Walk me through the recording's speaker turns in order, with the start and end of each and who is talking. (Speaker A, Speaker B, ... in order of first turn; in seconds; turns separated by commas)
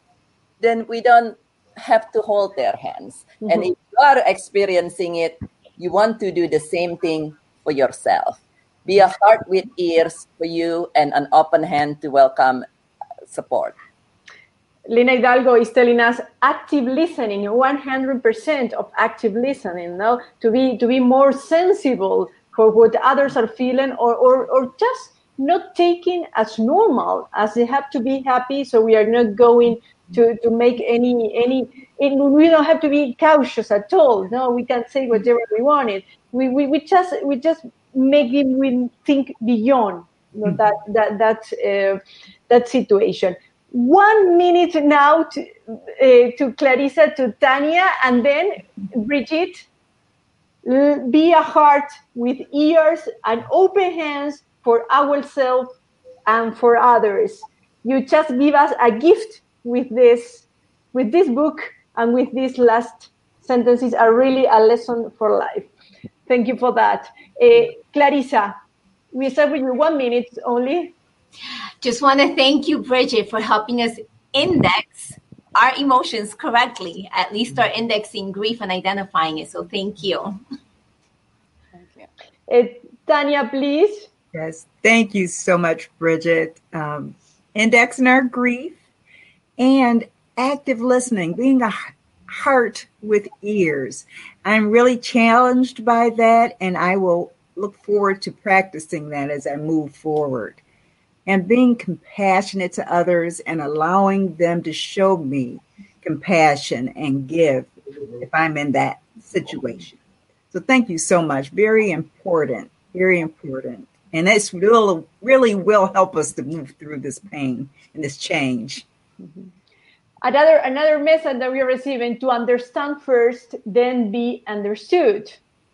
Speaker A: 0.6-12.6, Speaker A: 13.3-13.8, Speaker B: 14.9-49.7, Speaker B: 50.6-55.7, Speaker B: 56.3-65.7, Speaker B: 66.3-68.5, Speaker B: 69.1-70.9, Speaker C: 71.8-80.4, Speaker B: 82.5-84.1, Speaker D: 84.3-88.8, Speaker D: 89.6-100.6, Speaker D: 101.2-110.0, Speaker D: 110.5-118.8, Speaker B: 120.2-125.4